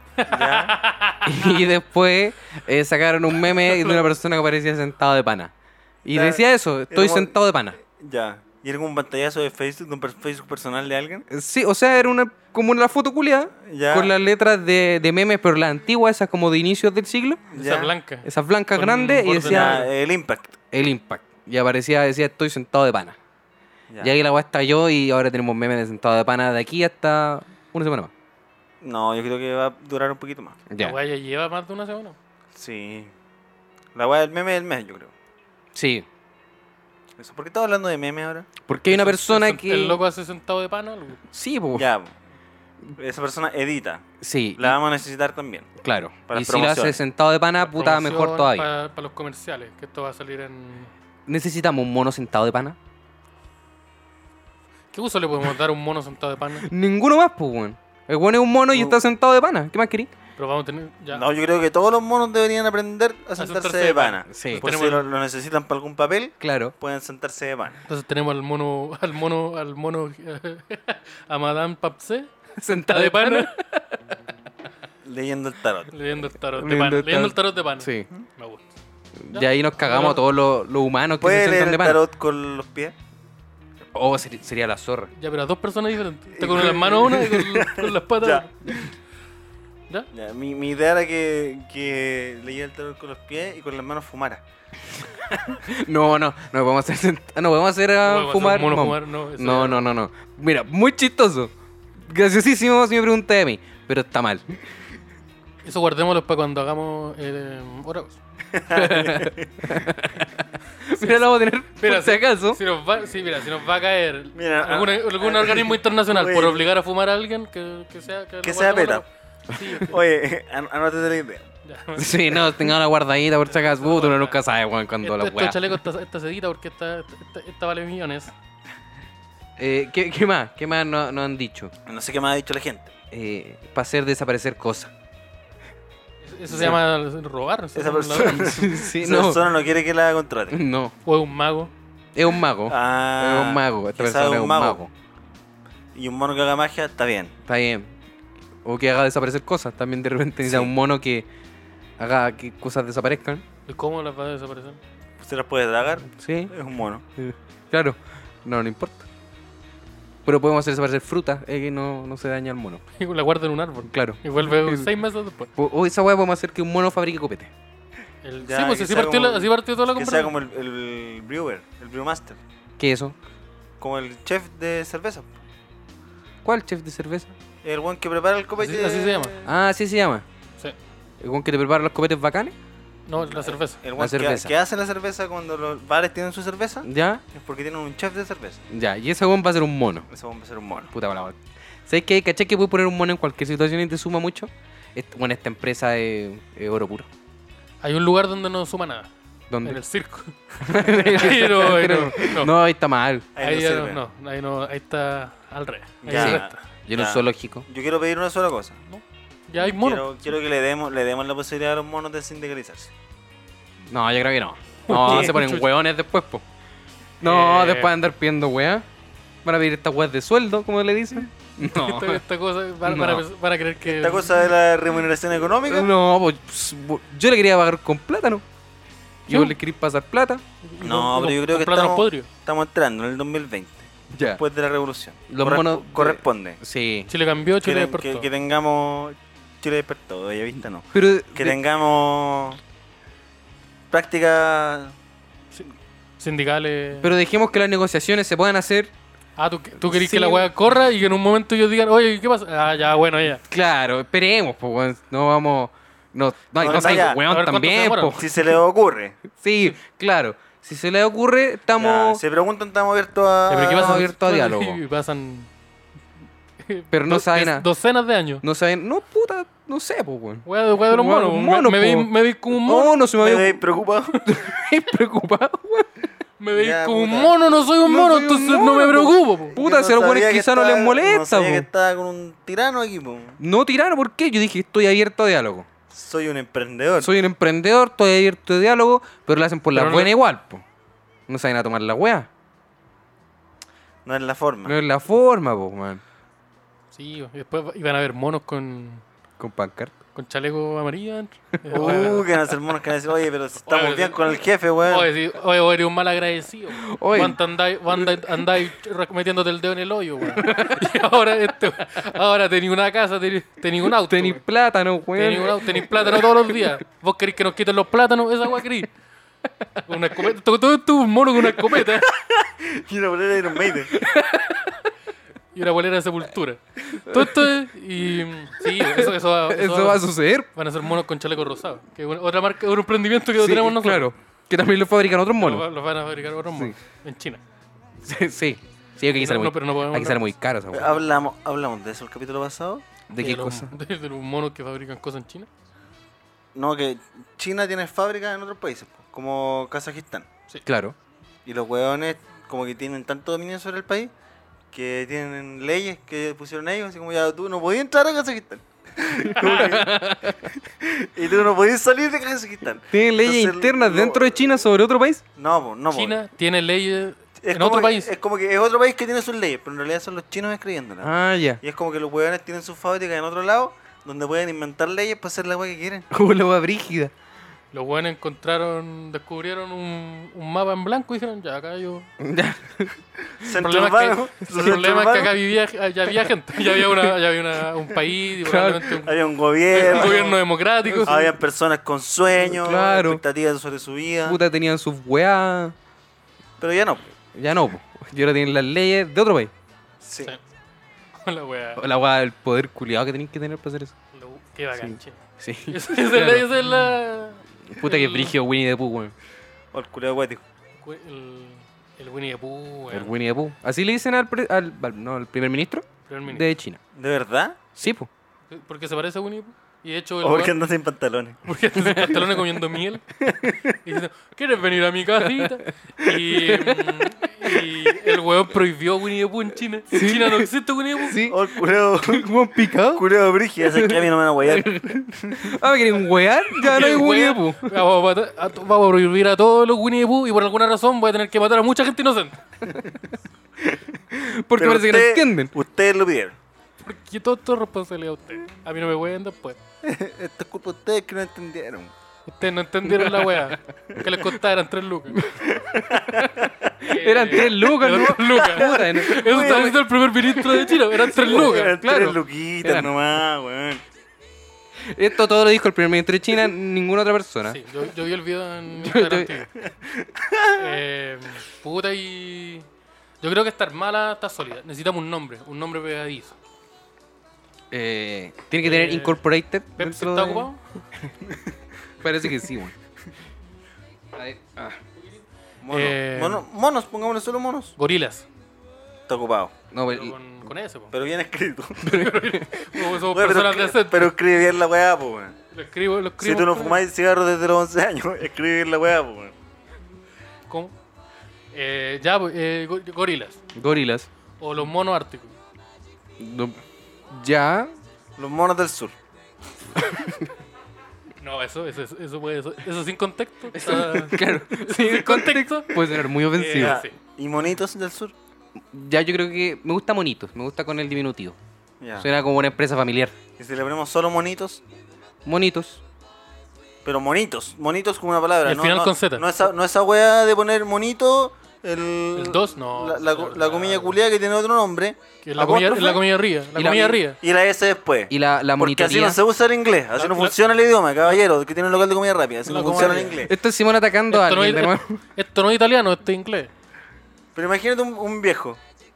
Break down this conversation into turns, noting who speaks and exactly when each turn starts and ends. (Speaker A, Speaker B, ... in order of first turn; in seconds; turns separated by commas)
Speaker A: 0.2-1.6, Speaker B: 0.3-0.8, Speaker C: 1.2-5.5, Speaker A: 3.6-4.0, Speaker C: 6.0-7.8, Speaker B: 6.1-7.3, Speaker B: 8.0-11.3, Speaker C: 11.3-17.4, Speaker B: 13.6-14.1, Speaker B: 17.5-17.9, Speaker A: 17.6-19.9, Speaker C: 18.2-19.9, Speaker B: 19.4-20.6, Speaker C: 20.7-23.2, Speaker C: 24.0-28.1, Speaker B: 28.8-30.6, Speaker C: 30.7-31.0, Speaker A: 30.8-32.2, Speaker B: 32.5-33.1, Speaker B: 34.0-35.1, Speaker C: 35.7-36.1, Speaker B: 37.2-38.5, Speaker C: 38.6-40.0, Speaker A: 38.9-41.2, Speaker C: 41.3-41.9, Speaker B: 41.8-42.1, Speaker B: 43.0-45.7, Speaker C: 44.2-44.8, Speaker C: 45.8-48.7, Speaker B: 46.3-47.0, Speaker A: 47.6-50.9, Speaker C: 51.3-52.8, Speaker A: 54.9-56.7, Speaker C: 56.6-60.1, Speaker A: 60.4-61.2, Speaker B: 61.1-67.8, Speaker A: 63.4-65.1, Speaker C: 64.3-64.7, Speaker C: 66.4-66.7, Speaker A: 67.9-72.3, Speaker C: 72.6-73.6, Speaker A: 72.9-73.7, Speaker B: 75.0-75.9, Speaker A: 75.9-78.8, Speaker C: 76.6-78.1, Speaker C: 79.2-82.0, Speaker A: 79.3-80.2, Speaker B: 81.2-83.0, Speaker C: 83.9-85.1, Speaker A: 85.2-88.9, Speaker B: 86.4-88.8, Speaker B: 90.1-94.4, Speaker C: 95.0-104.5, Speaker A: 98.0-99.9, Speaker A: 105.6-108.2, Speaker B: 108.5-109.7, Speaker C: 108.7-112.6, Speaker A: 111.0-120.0, Speaker B: 114.3-116.6, Speaker B: 118.4-119.0, Speaker B: 119.8-121.5, Speaker A: 121.7-122.7, Speaker C: 122.0-125.8, Speaker A: 123.5-124.4, Speaker A: 125.0-128.3, Speaker C: 129.6-131.7, Speaker B: 131.9-132.9, Speaker C: 133.1-134.9, Speaker A: 136.2-138.6, Speaker B: 136.5-136.8, Speaker B: 137.8-140.6, Speaker C: 138.2-139.4, Speaker C: 140.5-140.9, Speaker A: 141.1-141.7, Speaker C: 142.2-144.9, Speaker B: 142.7-144.8, Speaker B: 145.9-147.3, Speaker C: 147.5-147.9, Speaker C: 148.6-151.3, Speaker B: 150.4-150.7, Speaker C: 152.0-153.4, Speaker A: 153.7-154.8, Speaker B: 155.2-157.0, Speaker C: 156.1-156.5, Speaker C: 157.2-159.1, Speaker C: 160.2-162.8, Speaker A: 163.0-165.5, Speaker C: 163.9-164.9, Speaker C: 165.6-167.5, Speaker A: 168.2-170.3, Speaker B: 168.4-172.4, Speaker C: 172.8-173.2, Speaker B: 173.8-175.3, Speaker C: 176.4-177.3, Speaker B: 177.6-179.4, Speaker A: 178.6-179.4, Speaker C: 179.4-180.2, Speaker C: 181.2-182.6, Speaker A: 183.1-183.8, Speaker B: 183.2-188.6, Speaker C: 184.0-184.5, Speaker C: 186.8-187.2, Speaker C: 188.7-190.1, Speaker B: 190.1-190.9, Speaker C: 190.9-197.1, Speaker A: 197.8-199.1, Speaker C: 199.5-199.8, Speaker A: 199.6-202.5, Speaker C: 200.6-203.3, Speaker B: 203.4-204.0, Speaker A: 203.4-206.6, Speaker B: 206.0-208.8, Speaker C: 206.1-207.7, Speaker A: 208.9-210.1, Speaker B: 209.6-212.9, Speaker C: 213.9-216.4, Speaker A: 214.9-215.7, Speaker C: 217.2-218.9, Speaker A: 217.2-217.9, Speaker C: 219.4-222.2, Speaker A: 221.6-224.4, Speaker C: 222.8-223.2, Speaker B: 223.8-225.9, Speaker C: 225.7-228.4, Speaker C: 229.3-230.4, Speaker A: 229.3-229.6, Speaker A: 230.6-232.3, Speaker B: 230.8-236.6, Speaker C: 234.1-234.4, Speaker C: 235.3-237.1, Speaker A: 237.1-238.3, Speaker B: 237.6-242.6, Speaker C: 240.9-241.6, Speaker B: 243.9-244.9, Speaker A: 245.5-247.1, Speaker C: 247.0-248.9, Speaker A: 249.4-253.4, Speaker C: 249.8-250.5, Speaker C: 253.5-258.3, Speaker B: 256.6-257.2, Speaker A: 256.7-258.2, Speaker B: 258.1-259.2, Speaker C: 259.4-262.2, Speaker B: 261.8-264.1, Speaker A: 263.5-265.5, Speaker C: 263.6-264.8, Speaker A: 266.6-268.4, Speaker C: 266.9-267.7, Speaker C: 268.4-273.6, Speaker A: 270.5-272.9, Speaker B: 273.1-274.2, Speaker C: 274.2-275.9, Speaker A: 276.4-279.6, Speaker B: 276.5-277.4, Speaker C: 277.8-281.7, Speaker B: 279.5-283.4, Speaker C: 283.4-285.7, Speaker B: 285.9-287.1, Speaker C: 287.0-290.6, Speaker A: 289.7-290.1, Speaker C: 291.3-292.3, Speaker B: 294.1-294.8, Speaker C: 294.7-296.0, Speaker A: 296.9-299.0, Speaker C: 299.4-299.9, Speaker A: 300.2-302.4, Speaker B: 301.7-305.1, Speaker A: 303.7-304.3, Speaker A: 304.8-314.4, Speaker C: 306.8-307.4, Speaker C: 310.4-311.0, Speaker C: 313.9-316.8, Speaker A: 315.1-318.9, Speaker A: 319.9-322.1, Speaker B: 321.9-324.0, Speaker C: 323.9-324.8, Speaker A: 325.5-334.1, Speaker C: 327.1-327.5, Speaker C: 328.6-330.5, Speaker C: 333.4-335.7, Speaker A: 335.4-337.4, Speaker C: 338.0-341.0, Speaker A: 339.2-340.2, Speaker B: 340.7-342.9, Speaker C: 343.1-343.8, Speaker A: 343.2-345.5, Speaker B: 346.6-350.3, Speaker C: 350.7-351.0, Speaker B: 351.5-354.1, Speaker B: 354.7-359.9, Speaker A: 359.4-359.8, Speaker C: 359.4-360.5, Speaker B: 360.5-364.4, Speaker C: 362.9-365.2, Speaker B: 365.4-366.2, Speaker A: 365.9-368.1, Speaker B: 367.4-376.1, Speaker C: 371.0-371.6, Speaker C: 376.1-377.1, Speaker A: 377.7-382.1, Speaker C: 382.2-383.0, Speaker B: 383.3-385.3, Speaker A: 383.6-389.1, Speaker C: 388.4-389.0, Speaker B: 389.0-390.4, Speaker A: 389.7-391.3, Speaker C: 390.9-391.1, Speaker B: 391.1-394.4, Speaker C: 392.4-393.2, Speaker C: 394.2-395.8, Speaker B: 396.6-397.1, Speaker C: 397.3-399.5, Speaker B: 400.0-400.3, Speaker A: 401.2-401.8, Speaker C: 401.8-403.9, Speaker A: 404.1-408.3, Speaker C: 404.8-406.6, Speaker C: 407.7-409.1, Speaker B: 409.7-410.4, Speaker A: 410.8-413.1, Speaker C: 412.9-416.8, Speaker A: 416.1-416.5, Speaker B: 416.9-417.6, Speaker C: 417.8-418.1, Speaker A: 418.5-420.6, Speaker B: 420.2-421.4, Speaker A: 421.4-423.2, Speaker C: 421.9-422.2, Speaker B: 423.2-423.8, Speaker A: 423.8-431.2, Speaker C: 426.3-427.1, Speaker C: 429.9-433.1, Speaker B: 431.3-432.3, Speaker B: 432.9-435.6, Speaker C: 433.6-437.8, Speaker A: 436.6-442.4, Speaker C: 444.1-445.5, Speaker B: 444.6-446.4, Speaker A: 446.8-449.6, Speaker B: 449.8-451.9, Speaker A: 452.3-455.2, Speaker C: 452.9-453.6, Speaker C: 455.1-455.4, Speaker B: 455.4-456.8, Speaker C: 456.1-462.9, Speaker A: 456.8-461.8, Speaker B: 458.4-459.7, Speaker B: 461.1-463.8, Speaker C: 464.8-467.6, Speaker A: 467.5-469.5, Speaker C: 468.8-469.4, Speaker B: 470.1-470.6, Speaker A: 470.5-472.7, Speaker A: 473.2-476.4, Speaker C: 477.7-480.5, Speaker A: 478.6-479.2, Speaker A: 479.8-480.6, Speaker C: 482.0-482.8, Speaker C: 484.1-484.8, Speaker B: 485.6-487.7, Speaker A: 485.7-486.4, Speaker A: 487.8-488.3, Speaker B: 489.1-489.6, Speaker C: 489.7-490.1, Speaker A: 489.9-490.9, Speaker B: 490.9-492.0, Speaker C: 491.8-492.5, Speaker A: 491.9-494.1, Speaker B: 493.0-495.4, Speaker A: 495.5-496.8, Speaker B: 496.2-499.3, Speaker A: 500.5-500.7, Speaker A: 501.5-503.4, Speaker C: 503.6-504.1, Speaker A: 504.4-505.3, Speaker C: 506.2-507.7, Speaker B: 508.2-508.9, Speaker C: 509.8-510.3, Speaker A: 511.2-517.0, Speaker C: 513.5-516.8, Speaker B: 516.5-518.1, Speaker C: 518.7-521.4, Speaker B: 521.8-522.1, Speaker C: 522.0-523.1, Speaker B: 523.4-524.6, Speaker C: 525.2-525.8, Speaker B: 526.9-536.0, Speaker A: 528.5-529.3, Speaker A: 532.1-534.0, Speaker A: 535.2-537.2, Speaker C: 536.5-537.0, Speaker B: 537.1-543.3, Speaker C: 538.1-539.2, Speaker A: 540.0-540.4, Speaker A: 542.5-543.2, Speaker C: 543.1-545.0, Speaker A: 544.1-546.5, Speaker B: 547.4-548.6